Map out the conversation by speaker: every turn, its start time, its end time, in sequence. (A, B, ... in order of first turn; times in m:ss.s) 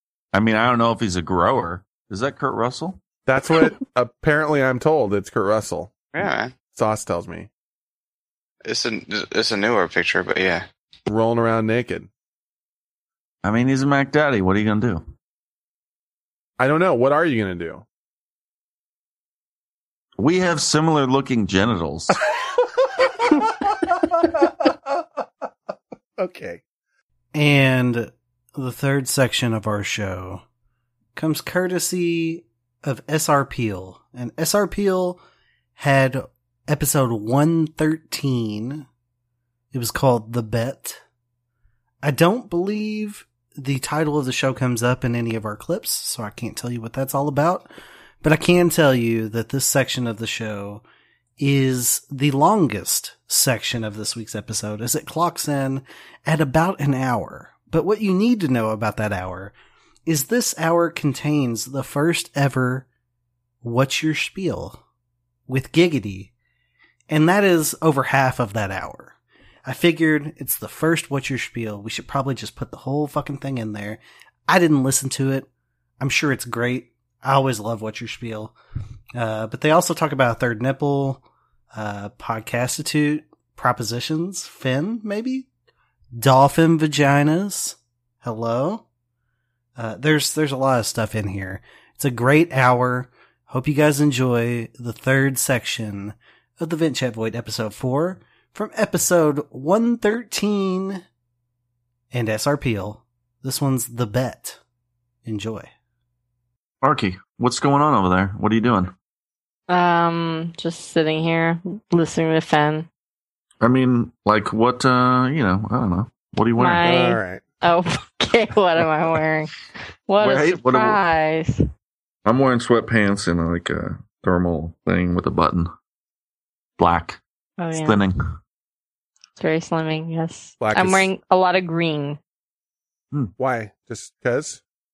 0:00.3-0:03.0 A
0:03.3-0:05.9 B
0:06.2-0:06.6 C
0:06.7-0:07.5 B
0:08.6-0:10.6 C
0:11.1-0:12.1 B
0:13.4-0:15.0 A
0:16.6-0:17.8 B
0:20.2-0:22.2 A
0:23.9-0:24.7 B
0:26.2-0:26.6 B
0:27.3-0:30.4 D
0:31.2-0:35.2 D
0:35.8-0:38.9 D
0:39.7-0:41.0 D
0:42.0-0:47.7 D
0:48.2-0:50.8 D
0:51.4-0:59.6 D
1:00.1-1:02.9 D
1:03.6-1:04.8 D
1:05.5-1:06.3 D
1:07.1-1:15.5 D
1:16.0-1:18.5 D
1:19.2-1:25.5 D
1:26.2-1:28.8 D
1:29.8-1:41.0 D
1:42.1-1:44.6 D
1:45.2-1:45.7 D
1:46.8-1:48.9 A
1:49.7-1:52.9 E
1:53.6-1:56.8 A
1:56.6-1:59.5 E
1:56.8-1:57.4 B
2:00.1-2:01.6 E
2:00.2-2:01.0 A
2:02.2-2:05.7 A
2:06.8-2:07.2 A
2:07.6-2:08.0 E
2:07.7-2:08.2 A
2:09.4-2:12.2 E
2:10.6-2:11.1 B
2:13.4-2:14.6 B